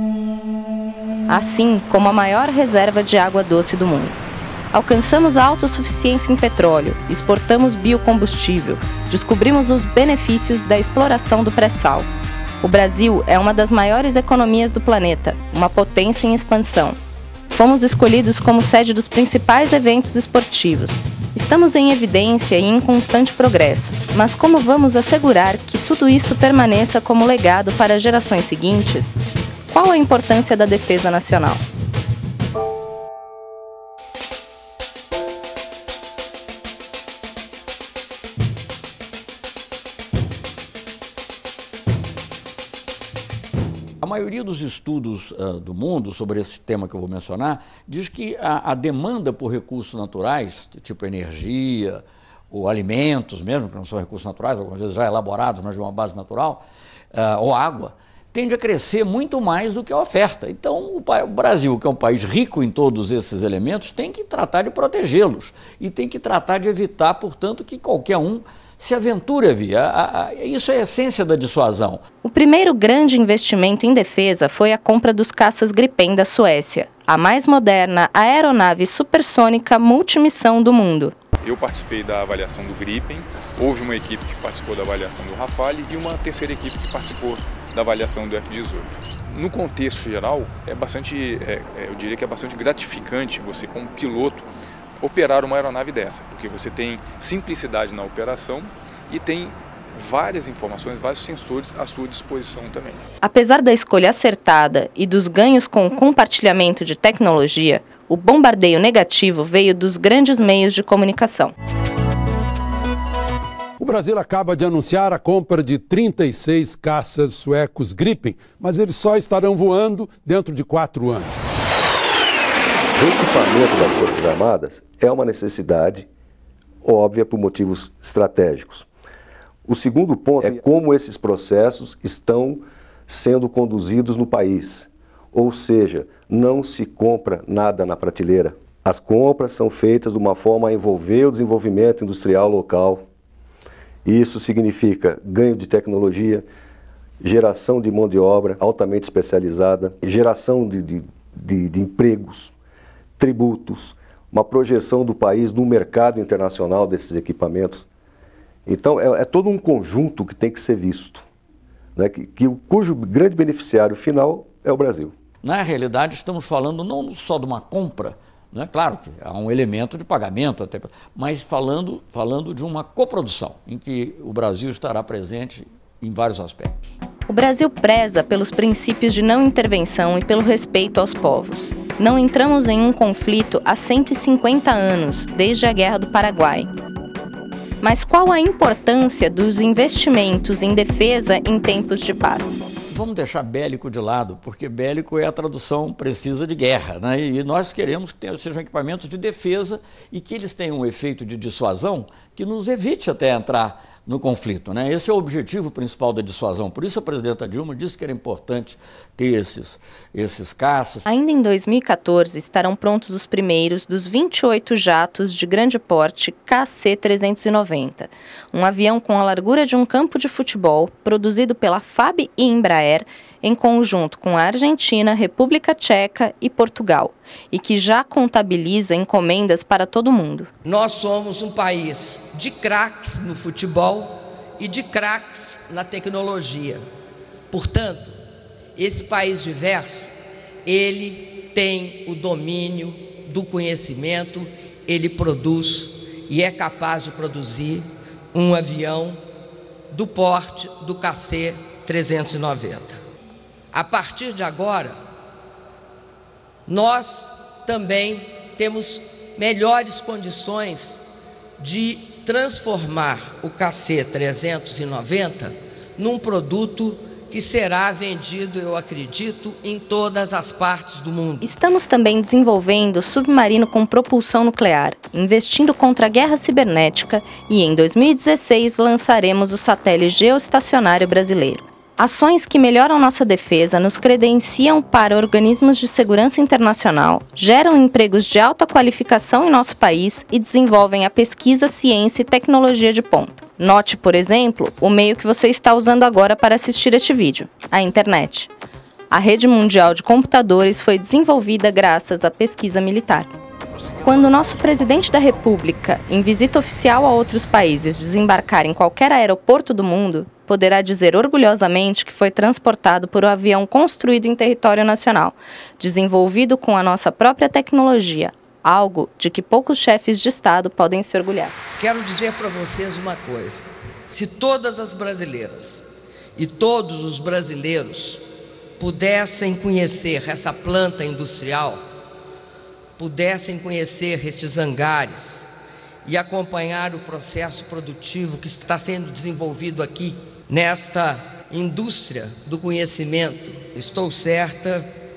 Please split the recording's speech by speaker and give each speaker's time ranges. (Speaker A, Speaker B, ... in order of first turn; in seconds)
Speaker A: 1.3-4.2, 4.7-12.1, 12.6-17.0, 17.5-29.2, 29.7-31.6, 72.2-81.1, 103.2-111.5, 177.3-186.7, 187.8-192.6, 211.1-230.5, 271.4-298.5, 299.1-303.3, 304.0-321.6
Speaker B: 44.0-72.0, 165.4-176.9, 192.9-211.0
Speaker C: 81.4-94.4, 95.0-103.0
Speaker D: 113.8-121.4
Speaker E: 122.9-126.1, 126.8-128.9, 129.7-143.0, 144.0-146.4, 147.2-152.5, 153.2-157.8, 158.7-161.2, 161.9-165.1
Speaker F: 230.6-236.8, 237.5-238.2, 238.8-240.1, 240.6-249.2, 249.9-253.0, 253.7-255.0, 256.6-261.1, 261.6-271.4, 321.8-328.2, 328.8-331.8, 333.0-335.5, 336.0-344.9